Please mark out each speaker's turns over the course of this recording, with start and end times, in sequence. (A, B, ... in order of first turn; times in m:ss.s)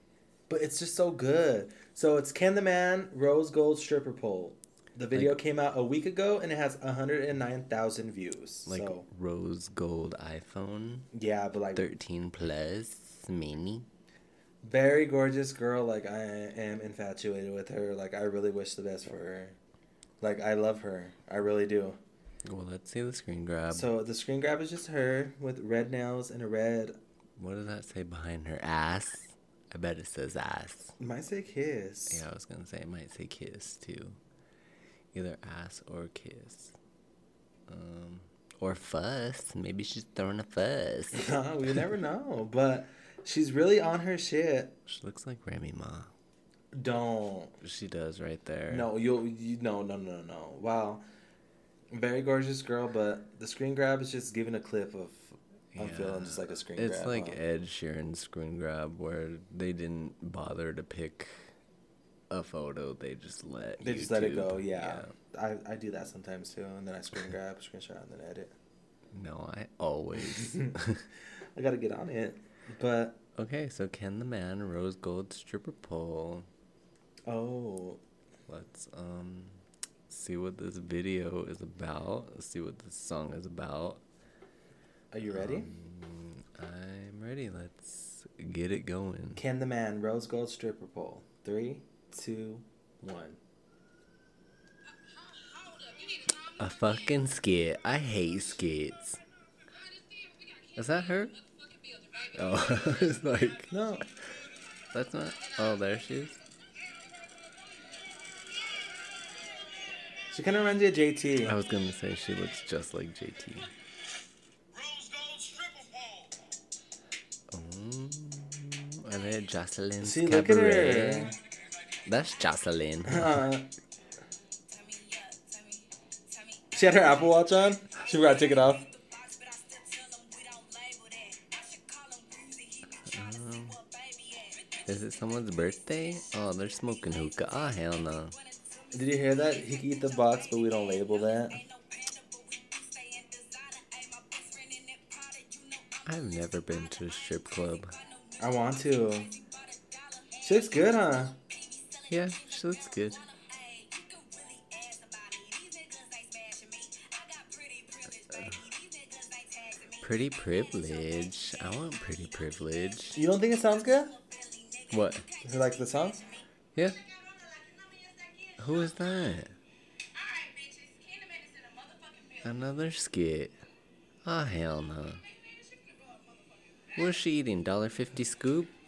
0:00.5-0:09.1 A
0:05.1-0:05.4 B
0:08.6-0:11.1 B
0:11.1-0:11.9 A
0:11.7-0:13.9 B
0:14.6-0:19.6 A
0:20.2-0:22.0 A
0:22.4-0:23.9 B
0:23.7-0:27.0 A
0:27.4-0:30.9 B
0:31.0-0:32.2 A
0:32.1-0:34.2 B
0:35.1-0:36.7 B
0:37.7-0:41.3 B
0:41.1-0:44.8 A
0:44.9-0:46.1 B
0:46.7-0:47.6 A
0:47.6-0:48.9 B
0:48.7-0:51.0 A
0:51.9-0:57.4 A
0:55.7-1:01.5 B
1:02.3-1:05.1 B
1:03.8-1:08.5 A
1:09.1-1:11.0 B
1:10.3-1:10.8 A
1:11.6-1:13.2 A
1:13.4-1:16.5 B
1:17.3-1:18.0 A
1:18.5-1:24.0 B
1:25.1-1:25.7 A
1:25.3-1:29.4 B
1:29.4-1:33.4 A
1:35.0-1:37.2 C
1:36.6-1:39.2 B
1:39.7-1:43.7 C
1:40.8-1:41.4 B
1:42.3-1:43.7 B
1:43.7-1:44.0 A
1:44.9-1:46.4 B
1:45.3-1:45.8 C
1:50.3-1:51.6 A
1:51.4-1:53.7 B
1:57.5-2:01.3 B
2:00.0-2:01.4 A
2:02.0-2:03.5 B
2:03.1-2:03.7 A
2:04.5-2:06.7 C
2:06.7-2:08.8 A
2:08.0-2:15.4 C
2:13.1-2:13.8 B
2:14.9-2:18.3 B
2:18.3-2:49.2 C
2:18.9-2:21.6 A
2:26.0-2:27.9 B
2:28.4-2:29.3 A
2:30.4-2:31.4 A
2:32.1-2:33.2 B
2:40.0-2:43.2 B
2:43.1-2:44.1 A
2:44.9-2:45.2 B
2:45.4-2:46.2 A
2:48.6-2:49.5 B
2:50.1-2:52.6 C
2:52.4-2:53.6 B
2:54.2-2:55.2 B
2:55.2-2:57.1 C
2:57.0-2:58.7 B